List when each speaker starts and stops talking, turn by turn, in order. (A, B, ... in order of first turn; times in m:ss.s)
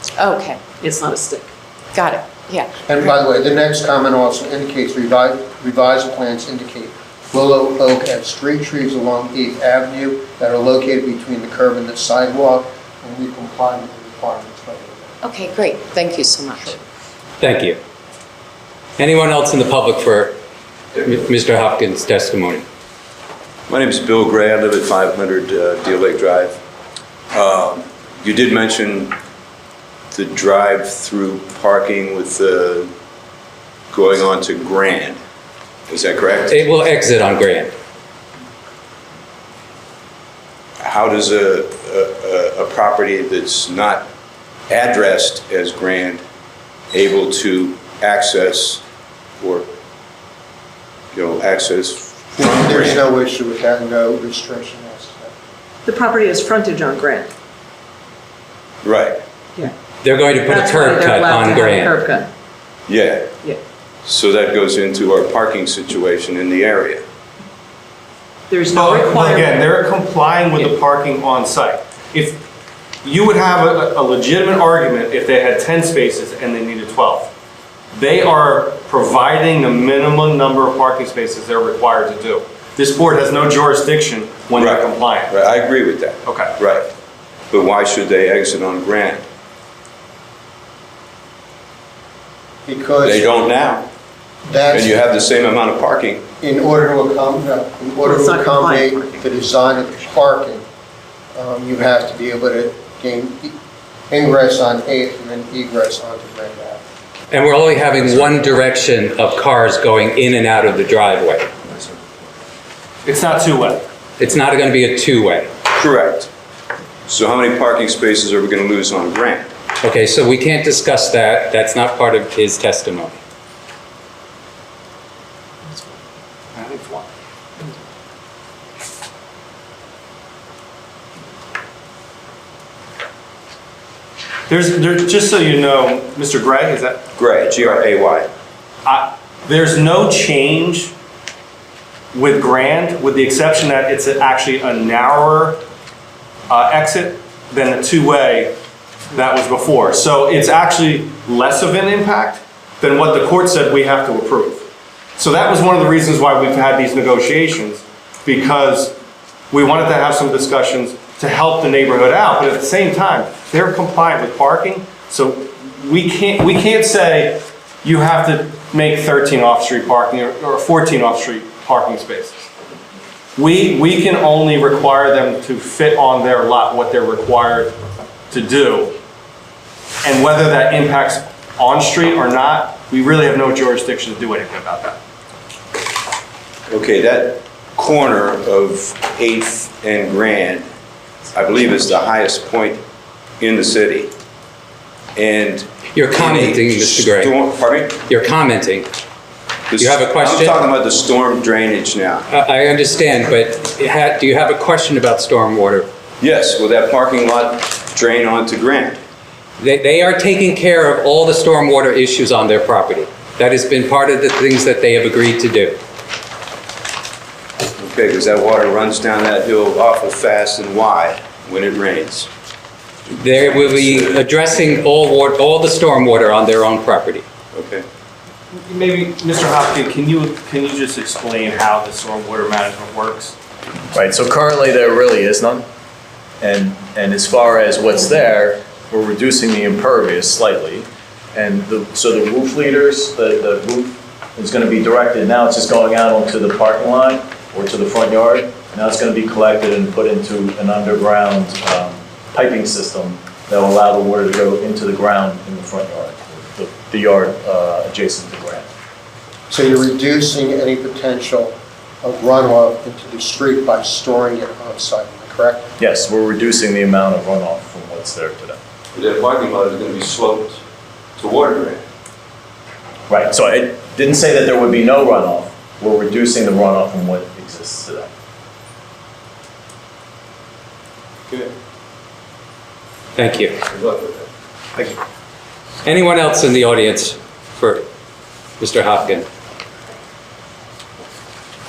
0:00.2-0:00.6 A
0:00.8-0:01.5 B
0:01.9-0:02.7 A
0:02.9-0:15.1 C
0:15.2-0:16.8 A
0:17.4-0:17.8 D
0:19.0-0:20.4 D
0:20.9-0:22.6 D
0:23.7-0:26.6 E
0:27.3-0:29.1 E
0:30.1-0:32.9 E
0:33.9-0:35.2 E
0:35.9-0:36.6 E
0:36.5-0:37.7 D
0:40.8-0:44.0 E
0:44.7-0:46.2 E
0:46.9-0:48.8 E
0:49.4-0:49.7 E
0:51.1-0:53.1 E
0:52.4-0:55.3 C
0:55.8-0:57.3 B
0:58.8-0:59.1 E
1:00.0-1:02.0 D
1:00.4-1:02.3 B
1:02.9-1:03.3 E
1:04.0-1:07.0 E
1:08.5-1:09.6 B
1:08.7-1:12.4 F
1:13.0-1:17.3 F
1:17.9-1:25.3 F
1:24.6-1:26.9 E
1:26.2-1:26.6 F
1:27.5-1:29.2 E
1:32.6-1:33.3 C
1:33.0-1:33.9 E
1:34.4-1:35.0 C
1:34.7-1:36.3 E
1:36.4-1:40.6 C
1:38.0-1:39.2 B
1:41.3-1:43.5 C
1:44.1-1:46.8 C
1:47.3-1:51.5 D
1:53.0-1:53.8 F
1:54.2-1:55.5 D
1:55.7-1:56.3 E
1:57.1-1:59.4 E
1:59.8-2:03.2 D
2:06.5-2:07.1 F
2:14.5-2:17.0 F
2:17.2-2:18.3 E
2:18.8-2:20.9 F
2:22.1-2:25.6 F
2:26.5-2:28.6 F
2:29.1-2:34.6 F
2:35.2-2:38.9 F
2:39.5-2:52.5 F
2:53.4-2:57.7 F
2:58.3-2:59.0 F
3:00.0-3:05.0 F
3:06.7-3:10.6 E
3:11.3-3:12.8 E
3:13.4-3:14.1 E
3:15.2-3:18.0 E
3:15.9-3:17.4 D
3:18.0-3:18.9 D
3:19.7-3:22.2 E
3:19.8-3:20.6 D
3:22.3-3:25.8 D
3:26.2-3:29.0 E
3:29.6-3:35.8 D
3:37.8-3:42.3 E
3:43.1-3:47.2 D
3:43.3-3:44.2 E
3:47.5-3:47.8 E
3:48.5-3:53.3 F
3:53.9-3:55.6 G
3:56.4-4:18.7 G
4:19.5-4:25.7 C
4:25.8-4:28.6 G
4:28.9-4:30.6 E
4:31.2-4:31.8 E
4:33.1-4:38.1 G
4:43.2-4:43.6 D
4:43.7-4:44.1 E
4:45.8-4:47.8 D
4:48.6-4:49.2 D